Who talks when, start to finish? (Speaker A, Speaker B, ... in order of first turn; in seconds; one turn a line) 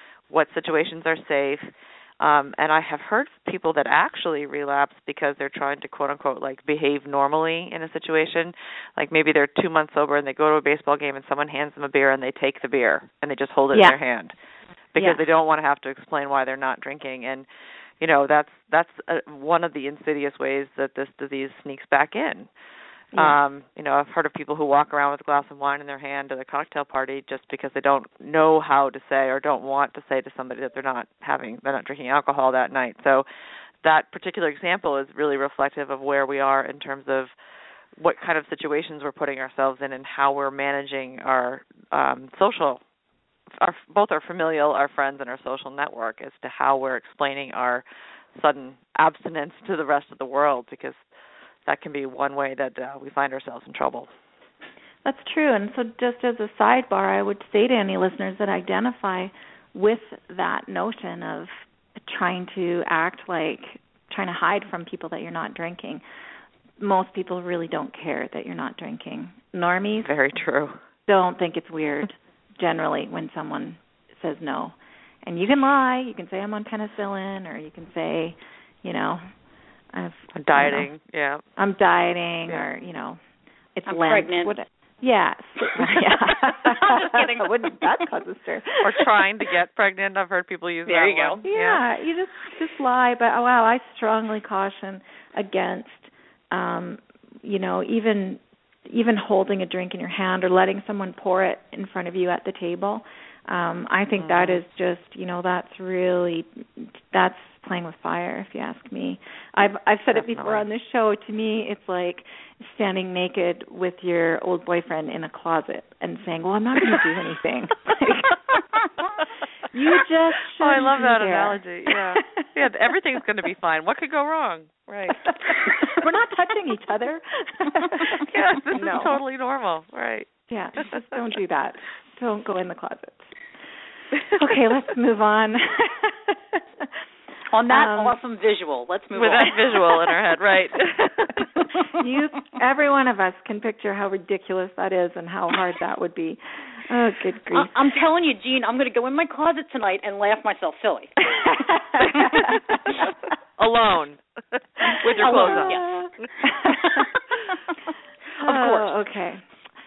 Speaker A: 0.3-14.3
Speaker A: 14.9-17.5
Speaker A: 18.0-22.5
Speaker A: 23.1-33.3
Speaker A: 33.8-37.3
Speaker A: 38.0-42.8
Speaker A: 43.6-51.0
Speaker A: 51.6-54.1
Speaker B: 55.0-61.5
Speaker B: 62.0-66.0
Speaker B: 66.8-70.1
Speaker A: 70.0-70.8
Speaker B: 71.1-79.3
Speaker B: 79.9-80.9
Speaker A: 80.3-81.4
Speaker B: 81.6-83.2
Speaker B: 83.8-89.1
Speaker C: 83.8-84.5
Speaker C: 85.8-87.9
Speaker A: 88.8-91.8
Speaker C: 90.8-91.4
Speaker B: 91.5-118.6
Speaker A: 104.2-104.6
Speaker A: 110.1-110.6
Speaker B: 119.7-122.3
Speaker A: 120.5-125.8
Speaker B: 125.3-129.1
Speaker A: 128.0-130.3
Speaker B: 130.5-133.3
Speaker B: 134.3-136.9
Speaker C: 137.5-139.8
Speaker B: 137.7-138.1
Speaker A: 139.1-141.5
Speaker B: 141.8-147.8
Speaker C: 147.5-151.5
Speaker B: 151.4-152.6
Speaker C: 152.1-152.4
Speaker A: 153.6-155.8
Speaker C: 155.2-155.9
Speaker B: 155.2-157.0
Speaker C: 156.5-157.2
Speaker C: 158.4-158.9
Speaker B: 158.4-159.4